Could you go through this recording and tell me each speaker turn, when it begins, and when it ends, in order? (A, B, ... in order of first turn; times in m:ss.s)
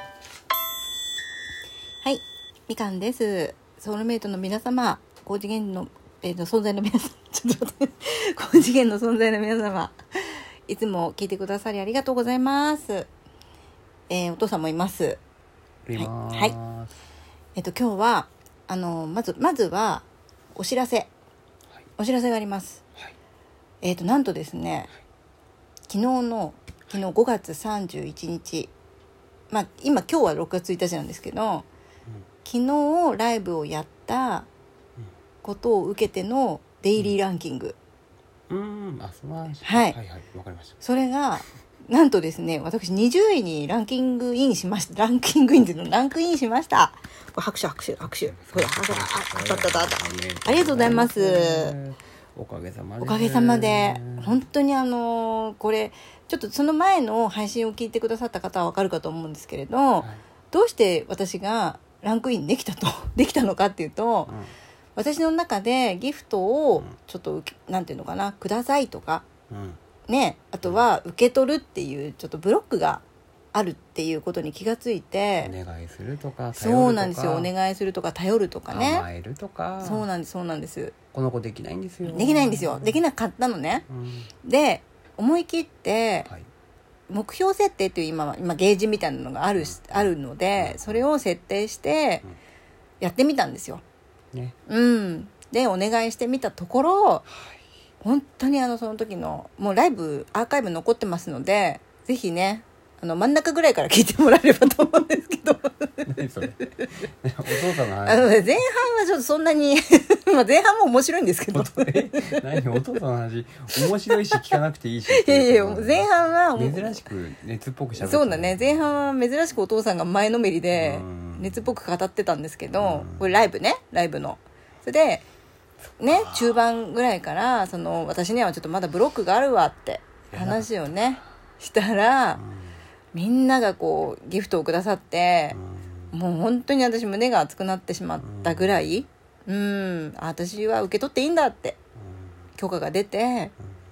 0:02.0-0:10.0 A
0:10.7-0:13.1 A
0:14.1-0:15.2 A
0:15.8-0:16.9 B
0:15.9-0:16.5 A
0:17.6-0:21.1 A
0:22.0-0:22.8 A
0:23.8-0:24.9 A
0:25.9-0:28.7 A
0:29.5-0:31.6 A
0:32.4-0:34.5 A
0:35.4-0:37.8 A
0:38.5-0:40.8 B
0:39.6-0:40.0 A
0:40.8-0:51.7 A
0:48.0-0:54.4 B
0:53.0-1:04.3 A
1:05.0-1:09.2 A
1:09.5-1:09.8 B
1:10.1-1:15.5 A
1:15.4-1:17.5 B
1:16.5-1:19.0 A
1:18.7-1:20.1 B
1:19.8-1:20.9 A
1:21.1-1:23.0 B
1:22.0-1:23.8 A
1:23.9-1:24.3 B
1:24.4-1:26.3 A
1:27.1-1:32.2 A
1:29.6-1:31.0 B
1:33.0-1:33.8 A
1:34.7-1:37.2 A
1:38.0-1:46.0 A
1:46.0-1:48.3 B
1:48.0-1:52.4 A
1:51.5-1:58.8 B
1:54.3-1:54.6 A
1:55.1-1:57.0 A
1:58.0-2:05.2 A
2:00.7-2:01.7 B
2:02.7-2:03.5 B
2:06.0-2:12.4 A
2:06.1-2:06.6 B
2:10.3-2:10.7 B
2:12.4-2:12.8 B
2:13.1-2:15.6 A
2:15.5-2:16.1 B
2:16.1-2:21.8 A
2:18.2-2:19.0 B
2:22.0-2:22.3 B
2:22.6-2:23.5 A